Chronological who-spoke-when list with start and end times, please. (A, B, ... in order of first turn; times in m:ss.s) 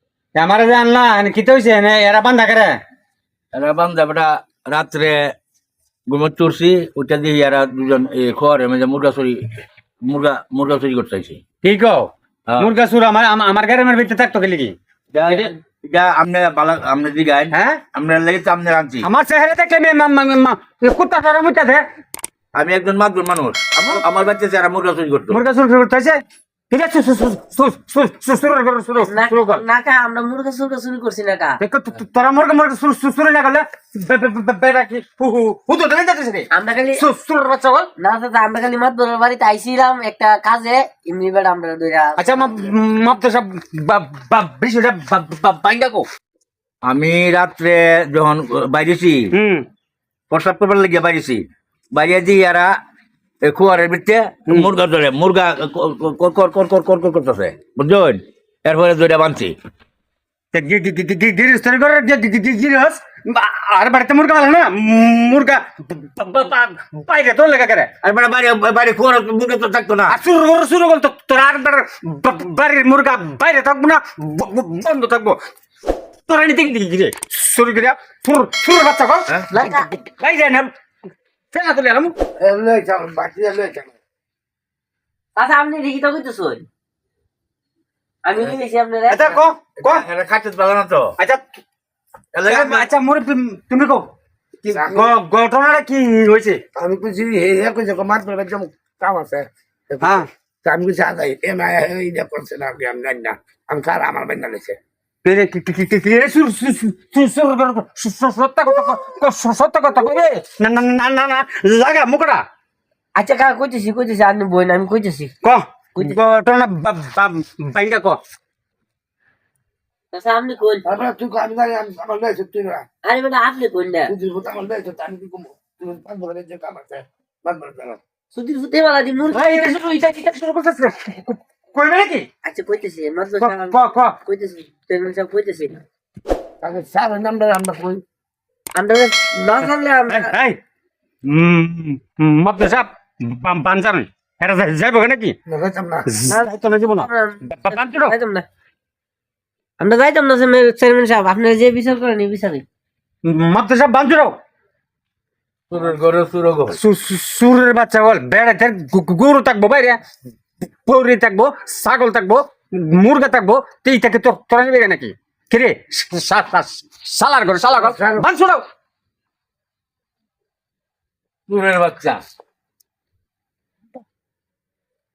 0:00.4-0:02.8 A
0:03.5-0:05.3 B
0:06.1-0:09.5 B
0:10.0-0:11.4 B
0:11.6-0:14.7 A
0:15.1-0:19.0 B
0:17.5-0:17.8 A
0:19.0-0:21.8 A
0:22.5-0:25.4 B
0:25.3-0:26.2 A
0:26.7-0:29.6 A
0:29.0-0:31.6 C
0:31.6-0:37.9 A
0:36.5-0:37.0 C
0:38.0-0:42.5 C
0:42.2-0:46.0 A
0:46.8-0:49.3 B
0:49.3-0:49.6 A
0:50.3-0:52.7 B
0:53.4-0:59.5 B
1:00.5-1:07.9 A
1:08.0-1:10.2 B
1:10.1-1:15.4 A
1:16.3-1:20.7 A
1:19.5-1:20.0 C
1:21.5-1:22.1 A
1:22.4-1:23.9 D
1:25.4-1:26.6 C
1:28.2-1:29.4 C
1:29.1-1:30.0 A
1:29.8-1:31.1 B
1:32.3-1:32.9 B
1:32.4-1:34.1 A
1:34.6-1:36.6 A
1:34.7-1:35.1 D
1:36.7-1:44.8 D
1:40.0-1:40.3 A
1:45.2-1:52.4 A
1:53.2-1:55.3 C
1:55.4-1:58.2 A
2:00.1-2:00.8 C
2:00.8-2:02.8 D
2:03.0-2:04.1 C
2:04.1-2:08.0 D
2:08.3-2:09.7 C
2:09.3-2:12.3 A
2:12.4-2:15.8 C
2:13.4-2:14.2 A
2:16.6-2:18.0 D
2:18.7-2:20.3 C
2:19.6-2:20.6 A
2:21.2-2:25.4 A
2:25.5-2:26.1 D
2:26.0-2:28.1 A
2:26.3-2:28.4 C
2:29.8-2:32.6 C
2:33.2-2:34.4 A
2:35.7-2:36.8 B
2:36.7-2:40.0 A
2:40.8-2:48.6 A
2:47.7-2:48.2 D
2:51.5-2:52.2 B